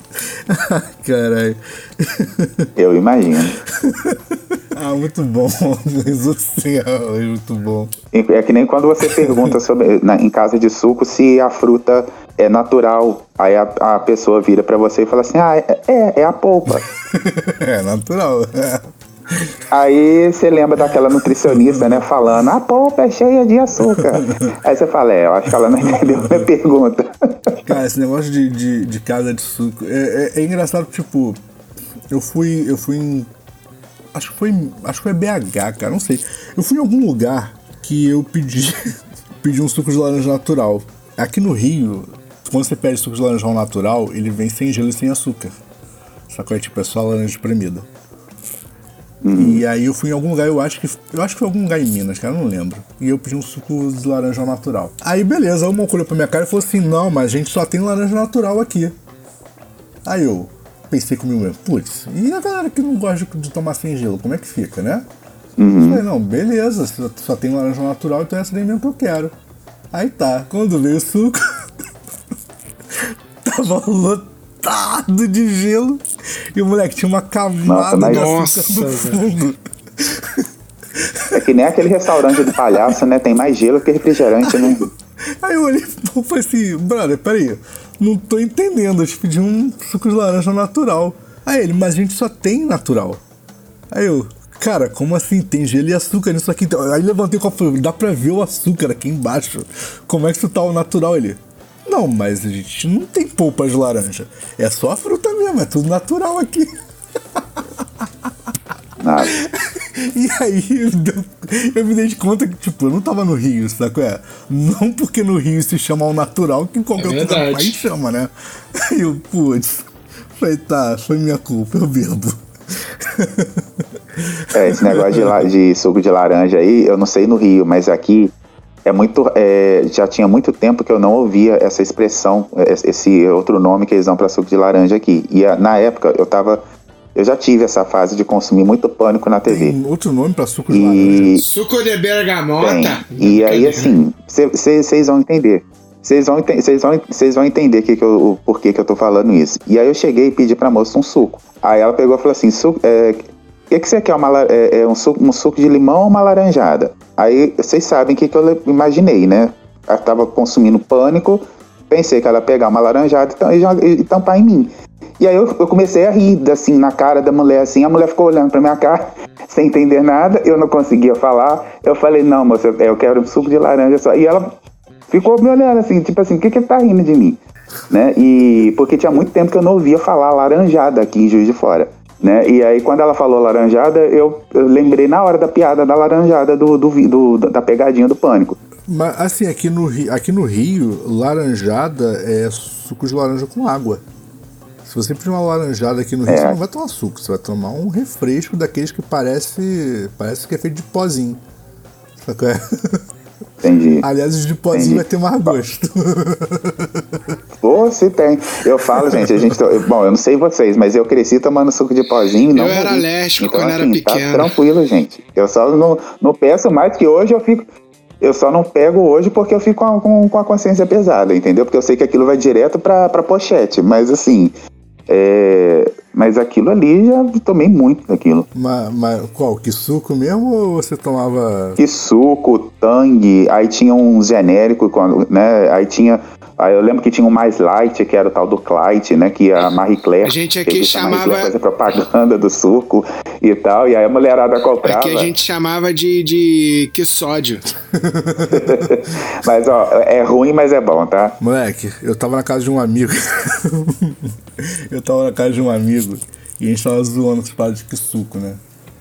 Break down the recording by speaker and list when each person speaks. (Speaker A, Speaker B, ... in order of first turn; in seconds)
Speaker A: 0.5-2.7, 3.6-7.9, 9.0-9.6, 17.1-19.5, 21.4-22.0, 23.8-24.5, 25.8-26.5, 27.7-31.4, 32.1-33.3, 34.1-38.8, 39.4-45.5, 46.3-47.9, 49.4-59.0, 60.0-65.1, 65.8-69.3, 69.9-71.9, 73.0-76.0, 76.5-81.5, 82.3-83.0, 84.4-93.2, 93.9-106.7, 107.4-108.3, 109.3-125.4, 139.5-141.4, 188.9-194.0, 194.8-201.4, 202.2-203.1, 204.0-207.3, 209.1-209.6, 228.5-231.8, 247.9-248.9, 251.4-258.6
Speaker B: 2.8-3.6, 8.1-16.9, 19.7-27.6, 49.2-49.6, 65.6-66.0, 77.7-78.3, 81.3-84.9, 109.0-109.4, 124.5-128.3, 128.8-136.6, 137.2-139.8, 140.7-141.4, 142.6-174.6, 175.1-188.6, 196.3-196.6, 203.6-204.1, 204.7-205.6, 207.6-217.7, 218.2-224.5, 225.1-228.5, 231.8-245.3, 248.5-251.4
Speaker C: 78.0-79.2, 117.0-117.8, 141.4-143.9, 212.5-214.5, 240.2-241.5, 244.8-247.7